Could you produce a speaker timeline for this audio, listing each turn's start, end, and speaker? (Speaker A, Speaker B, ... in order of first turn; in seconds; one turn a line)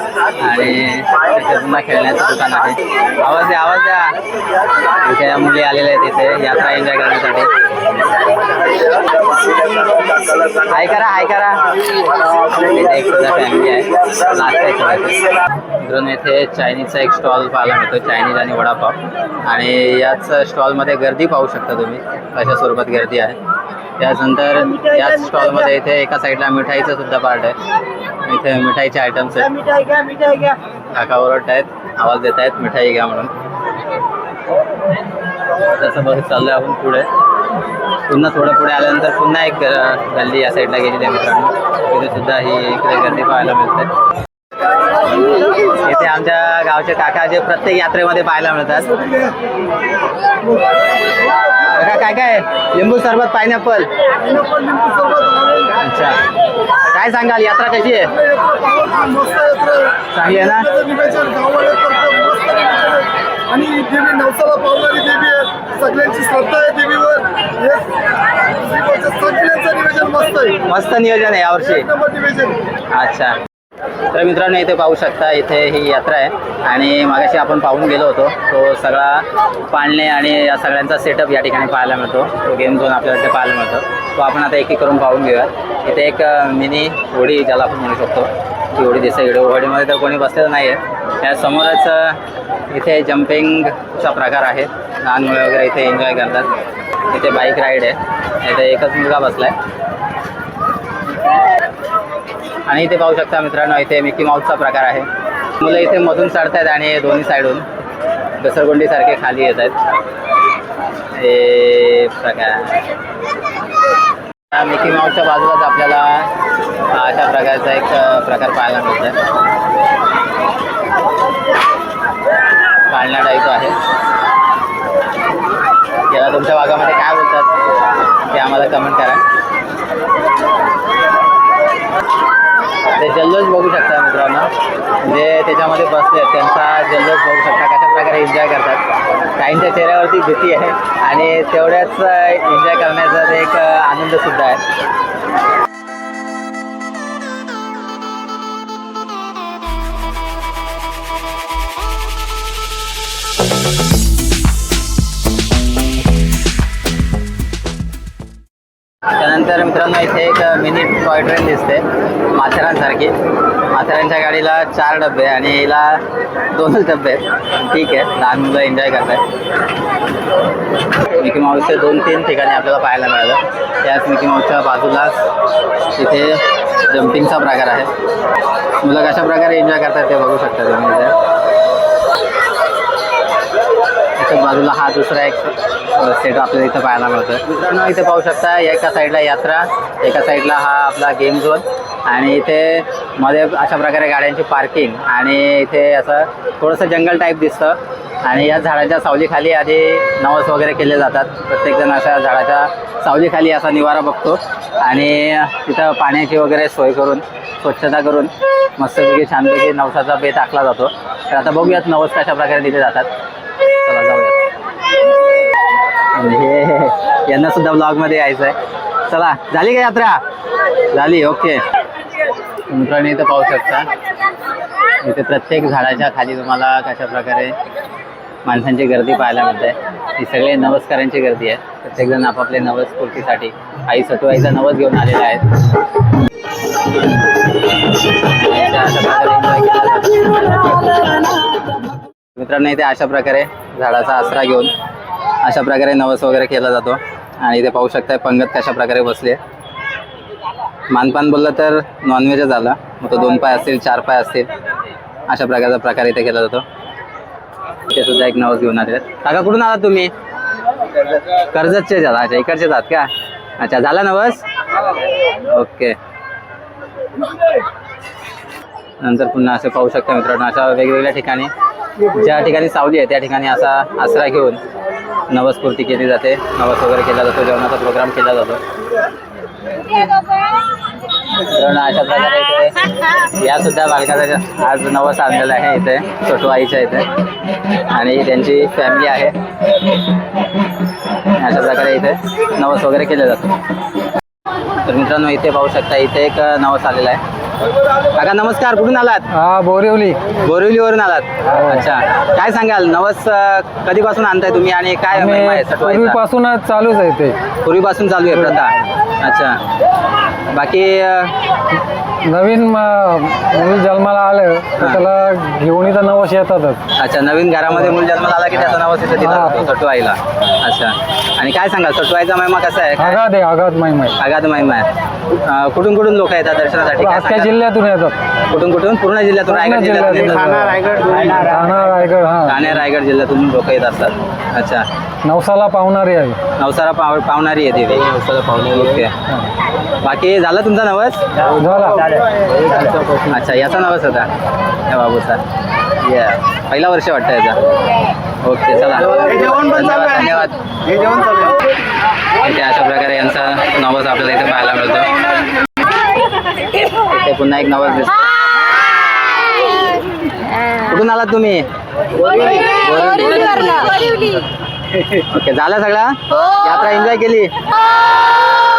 Speaker A: 0.4-4.2
Speaker A: 5.0-7.5
Speaker A: 10.7-11.6
Speaker A: 12.4-15.2
Speaker A: 15.8-23.4
Speaker A: 24.0-27.6
Speaker A: 28.2-29.6
Speaker B: 29.7-30.3
Speaker A: 30.9-33.3
Speaker A: 35.7-37.1
Speaker A: 38.1-43.9
Speaker A: 45.8-48.9
Speaker A: 51.7-53.9
Speaker C: 54.2-55.8
Speaker A: 55.8-56.2
Speaker A: 56.9-58.1
Speaker C: 58.1-67.9
Speaker A: 60.1-60.7
Speaker C: 68.5-70.6
Speaker A: 70.7-71.9
Speaker C: 71.7-72.6
Speaker A: 72.9-73.4
Speaker A: 74.1-92.2
Speaker A: 92.7-96.5
Speaker A: 97.1-99.5
Speaker A: 102.7-105.1
Speaker A: 105.6-107.7
Speaker A: 108.4-109.8
Speaker A: 111.2-112.8
Speaker A: 114.5-116.3
Speaker A: 116.9-119.2
Speaker A: 122.9-123.8
Speaker A: 126.1-127.5
Speaker A: 128.3-129.2
Speaker A: 133.0-134.5
Speaker A: 135.0-138.8
Speaker A: 139.4-144.6
Speaker A: 159.2-163.2
Speaker A: 163.7-166.0
Speaker A: 166.5-169.2
Speaker A: 171.2-175.2
Speaker A: 176.0-177.9
Speaker A: 178.8-181.1
Speaker A: 184.2-213.1
Speaker A: 213.8-214.4
Speaker A: 216.1-218.6
Speaker A: 219.1-220.2
Speaker A: 220.9-221.6
Speaker A: 222.7-223.9
Speaker A: 225.0-227.6
Speaker A: 228.4-235.5
Speaker A: 238.3-240.6
Speaker A: 242.4-244.7
Speaker A: 245.4-249.4
Speaker A: 250.9-254.5
Speaker A: 255.3-256.6
Speaker A: 257.9-260.1
Speaker A: 261.4-264.4
Speaker A: 265.5-266.0
Speaker A: 269.0-271.5
Speaker A: 272.1-274.6
Speaker A: 275.3-278.6
Speaker A: 281.5-282.8
Speaker A: 283.4-287.1
Speaker A: 287.9-289.4
Speaker A: 291.4-293.5
Speaker A: 294.8-297.2
Speaker A: 298.1-299.3
Speaker D: 299.3-300.2
Speaker A: 300.4-306.2
Speaker D: 301.5-301.8
Speaker D: 305.1-307.4
Speaker A: 307.6-309.6
Speaker A: 310.5-311.4
Speaker D: 312.2-316.8
Speaker A: 317.0-323.2
Speaker D: 319.2-319.7
Speaker D: 323.0-324.2
Speaker A: 324.2-327.5
Speaker D: 327.0-328.2
Speaker A: 328.5-330.8
Speaker D: 329.5-332.6
Speaker B: 330.9-331.6
Speaker A: 332.4-334.9
Speaker D: 335.2-336.4
Speaker A: 336.6-339.1
Speaker A: 340.0-341.2
Speaker D: 341.6-342.1
Speaker B: 342.1-343.1
Speaker A: 343.2-344.3
Speaker A: 344.9-345.4
Speaker A: 346.0-347.6
Speaker A: 348.4-351.5
Speaker A: 352.4-355.1
Speaker A: 357.0-358.3
Speaker A: 360.7-361.7
Speaker A: 362.2-364.1
Speaker A: 365.2-367.5